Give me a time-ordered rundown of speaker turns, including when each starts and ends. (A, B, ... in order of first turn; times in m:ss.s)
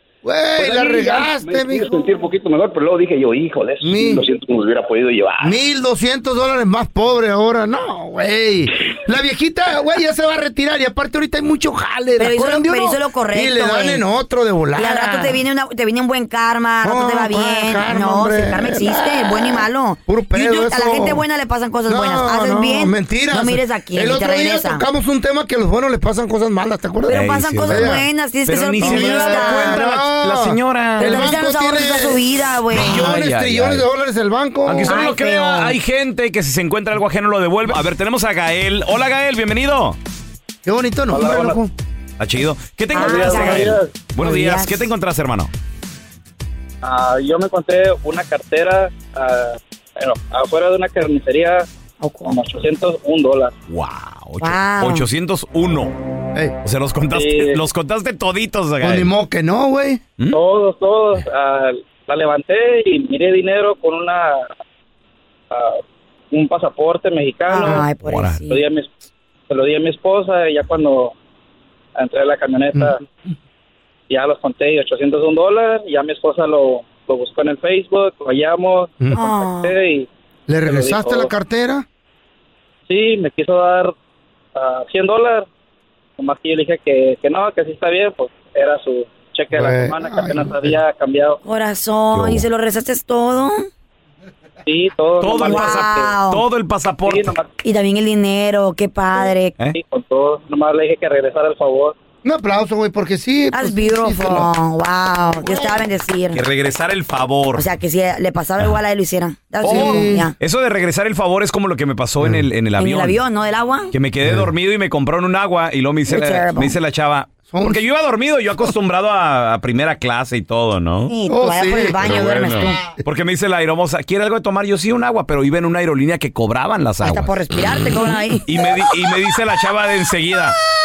0:00.2-0:01.9 A
0:00.6-0:05.6 B
0:03.8-0:04.2 A
0:05.4-0:15.4 A
0:12.2-0:14.0 C
0:14.8-0:24.8 C
0:16.8-0:21.2 A
0:21.9-0:28.1 A
0:27.1-0:29.8 C
0:27.1-0:31.2 D
0:28.8-0:35.0 A
0:31.0-0:33.2 C
0:32.7-0:33.8 D
0:34.7-0:40.0 D
0:34.8-0:35.8 C
0:40.6-0:41.7 A
0:41.1-0:41.5 E
0:42.2-0:45.5 D
0:42.9-0:44.9 C
0:42.9-0:43.9 E
0:46.8-0:51.7 E
0:52.0-0:52.4 C
0:52.3-0:53.5 E
0:53.7-0:55.9 D
0:54.4-0:55.0 C
0:56.6-0:59.1 D
0:57.1-0:57.6 E
0:58.8-1:00.0 A
1:00.3-1:04.5 E
1:05.5-1:05.8 E
1:06.3-1:07.9 E
1:07.5-1:08.6 C
1:08.0-1:08.4 D
1:08.5-1:08.9 E
1:09.5-1:11.1 E
1:12.0-1:13.0 E
1:14.1-1:20.1 E
1:19.0-1:19.2 A
1:19.1-1:19.8 C
1:20.5-1:21.8 A
1:20.6-1:21.3 E
1:22.9-1:23.9 E
1:24.5-1:25.5 E
1:26.2-1:31.4 E
1:29.5-1:30.8 A
1:31.4-1:33.7 C
1:32.1-1:32.4 D
1:34.6-1:36.1 E
1:35.2-1:37.3 D
1:35.4-1:36.4 C
1:37.0-1:37.5 E
1:37.6-1:39.6 C
1:39.7-1:41.9 E
1:42.2-1:44.5 A
1:43.5-1:46.4 C
1:45.4-1:45.8 A
1:46.3-1:47.7 D
1:47.5-1:50.3 C
1:49.6-1:50.3 A
1:49.6-1:53.2 D
1:52.8-1:53.9 C
1:53.9-2:01.1 D
1:54.2-1:54.5 A
1:56.1-1:56.8 C
1:57.5-1:57.8 A
2:01.1-2:02.8 C
2:01.3-2:02.3 A
2:02.0-2:07.4 D
2:07.0-2:08.4 C
2:08.0-2:08.4 A
2:08.4-2:10.6 D